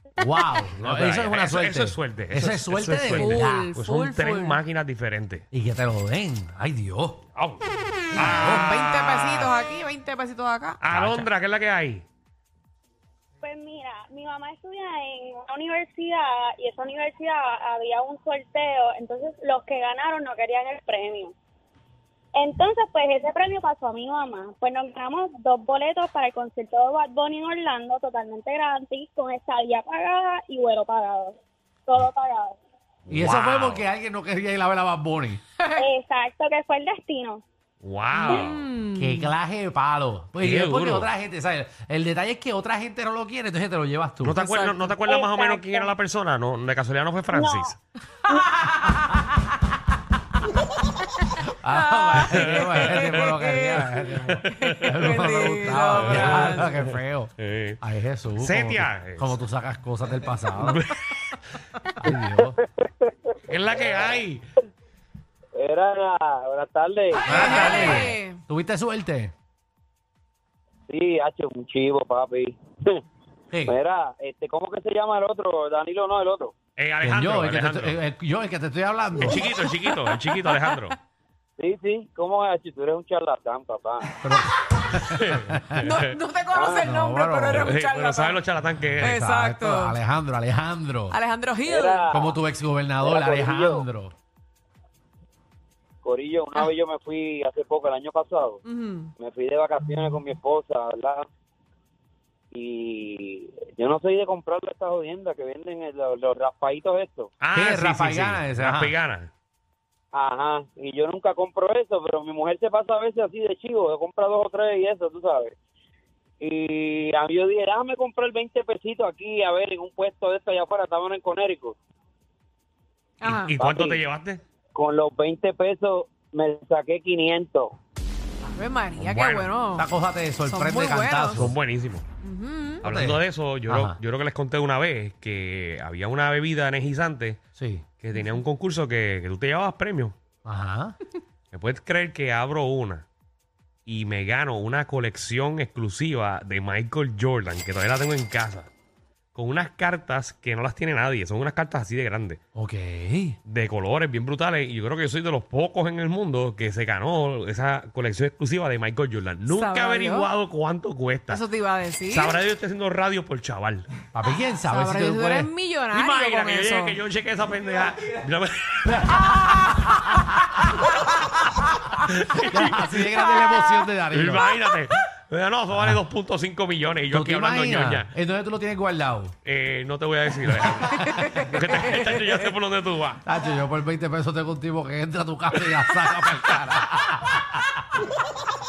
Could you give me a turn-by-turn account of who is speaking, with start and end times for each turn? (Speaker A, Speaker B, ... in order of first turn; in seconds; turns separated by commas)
Speaker A: 0.2-3.7, Speaker B: 0.8-5.5, Speaker C: 3.1-4.6, Speaker A: 5.5-7.2, Speaker B: 7.4-9.5, Speaker A: 8.1-8.7, Speaker C: 8.4-10.8, Speaker B: 10.8-12.1, Speaker A: 10.9-11.3, Speaker D: 13.4-21.3, Speaker D: 22.4-32.6, Speaker B: 33.1-33.9, Speaker A: 33.1-35.4, Speaker D: 35.8-37.4, Speaker B: 37.8-38.6, Speaker C: 38.1-39.3, Speaker A: 39.0-44.4, Speaker B: 40.4-41.1, Speaker B: 44.2-47.8, Speaker C: 44.4-45.0, Speaker D: 45.1-45.9, Speaker D: 47.3-47.7, Speaker C: 48.6-49.1, Speaker A: 51.4-60.8, Speaker C: 51.7-56.9, Speaker B: 52.3-53.2, Speaker B: 54.5-54.9, Speaker B: 56.0-56.9, Speaker B: 57.4-57.8, Speaker B: 58.4-59.3, Speaker B: 60.6-61.2, Speaker A: 62.0-62.6, Speaker B: 63.5-64.4, Speaker E: 65.5-67.6, Speaker A: 67.3-69.3, Speaker C: 67.3-68.4, Speaker E: 70.9-73.0, Speaker E: 73.7-76.5, Speaker B: 76.8-78.0, Speaker A: 77.0-79.5, Speaker B: 79.2-81.0, Speaker C: 79.3-80.9, Speaker E: 81.6-84.2, Speaker A: 84.2-85.8, Speaker B: 85.1-86.1, Speaker C: 85.8-88.4, Speaker E: 86.5-86.9, Speaker A: 86.8-87.8, Speaker B: 87.5-89.2, Speaker C: 89.0-90.0, Speaker A: 89.0-91.2, Speaker C: 91.1-92.2, Speaker E: 91.7-92.4, Speaker A: 92.1-94.1, Speaker E: 93.0-93.9, Speaker E: 96.0-98.6, Speaker C: 98.7-99.1, Speaker E: 99.2-101.3, Speaker E: 102.5-107.3, Speaker B: 107.4-109.3, Speaker A: 107.5-108.9, Speaker E: 110.1-115.5, Speaker E: 116.4-121.8, Speaker C: 123.2-123.5, Speaker B: 123.3-124.4, Speaker E: 123.5-124.0, Speaker E: 124.8-127.8, Speaker C: 128.5-129.9, Speaker B: 129.0-129.5, Speaker A: 129.8-131.5, Speaker C: 130.5-131.5, Speaker B: 131.4-132.1, Speaker C: 132.2-132.8, Speaker B: 132.8-137.4, Speaker A: 132.8-134.0, Speaker A: 137.6-137.8, Speaker B: 138.0-140.2, Speaker A: 140.4-141.0, Speaker B: 141.5-143.1, Speaker B: 143.9-148.7, Speaker B: 149.3-152.4, Speaker A: 152.6-153.4, Speaker B: 153.5-161.4, Speaker C: 159.5-160.3, Speaker C: 161.3-162.3, Speaker B: 162.1-163.9, Speaker A: 164.1-165.5, Speaker C: 164.7-167.0, Speaker B: 165.9-169.4, Speaker A: 168.9-170.3, Speaker B: 172.0-173.3, Speaker A: 172.5-174.5, Speaker B: 174.1-178.1, Speaker A: 175.7-176.0, Speaker A: 177.1-179.3, Speaker B: 179.4-183.2, Speaker A: 180.6-181.3, Speaker A: 183.2-187.8